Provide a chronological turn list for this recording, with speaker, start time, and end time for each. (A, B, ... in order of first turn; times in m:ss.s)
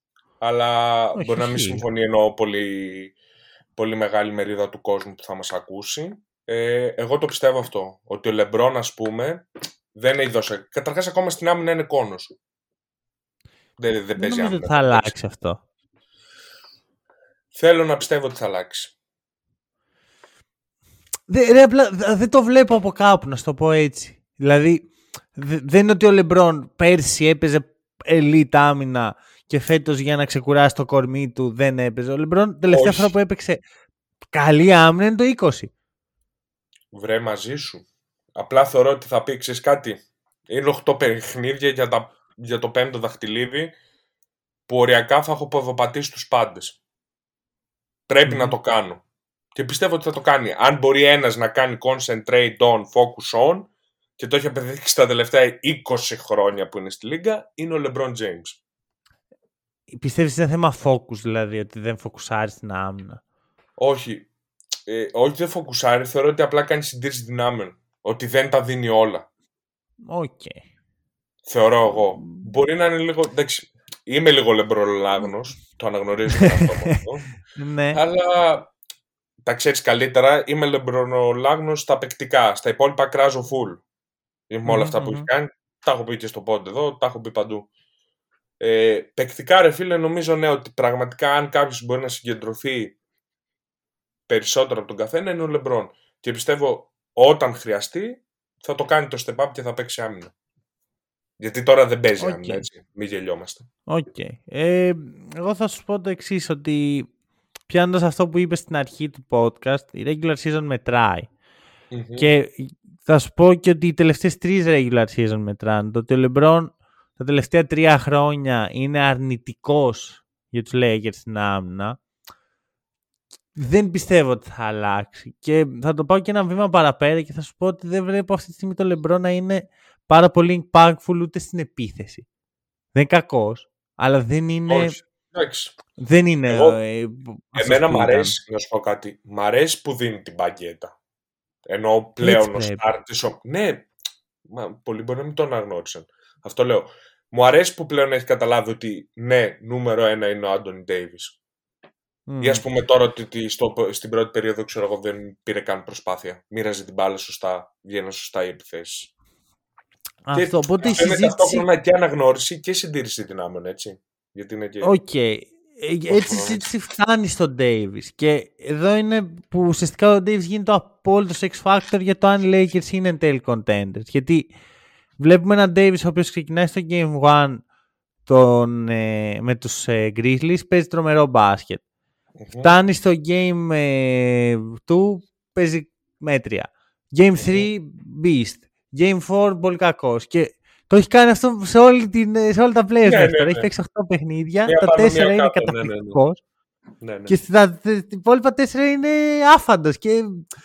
0:00.4-0:03.1 A
0:01.2-0:01.8 B
0:03.8-0:12.3 A
0:13.8-0:15.1 A
0:14.2-0:15.6 B
0:17.5-0:18.9 A
0:21.3-0:33.6 B
0:32.7-0:33.1 A
0:34.3-0:35.7 B
0:36.9-0:37.8 A
0:38.4-0:43.7 A
0:44.7-0:46.8 A
0:48.1-0:49.0 A
0:48.2-0:48.5 B
0:49.5-0:58.6 A
0:59.9-1:03.2 B
1:03.8-1:04.3 A
1:04.8-1:09.2 A
1:10.1-1:10.6 B
1:11.4-1:17.2 A
1:16.4-1:17.0 B
1:17.5-1:18.0 B
1:17.9-1:18.7 A
1:19.4-1:23.8 A
1:24.5-1:27.7 A
1:24.6-1:25.3 B
1:28.6-1:33.0 A
1:34.3-1:40.3 A
1:41.4-1:43.7 A
1:42.2-1:42.6 B
1:43.9-1:47.1 B
1:47.7-1:51.3 B
1:51.9-1:52.3 A
1:52.2-2:02.0 B
2:03.6-2:12.2 B
2:12.9-2:15.0 B
2:14.7-2:15.8 A
2:16.0-2:18.4 B
2:16.5-2:16.8 A
2:17.6-2:20.9 A
2:21.6-2:23.9 A
2:22.2-2:22.8 B
2:24.4-2:31.4 A
2:32.3-2:32.6 B
2:32.4-2:39.1 A
2:40.2-2:41.6 B
2:40.3-2:44.9 A
2:44.8-2:54.5 B
2:46.1-2:46.7 A
2:55.2-2:57.6 B
2:58.2-3:01.8 B
3:02.4-3:02.7 A
3:02.6-3:16.4 B
3:07.4-3:07.7 A
3:13.0-3:13.7 A
3:14.6-3:16.2 A
3:17.0-3:17.4 A
3:17.3-3:20.4 B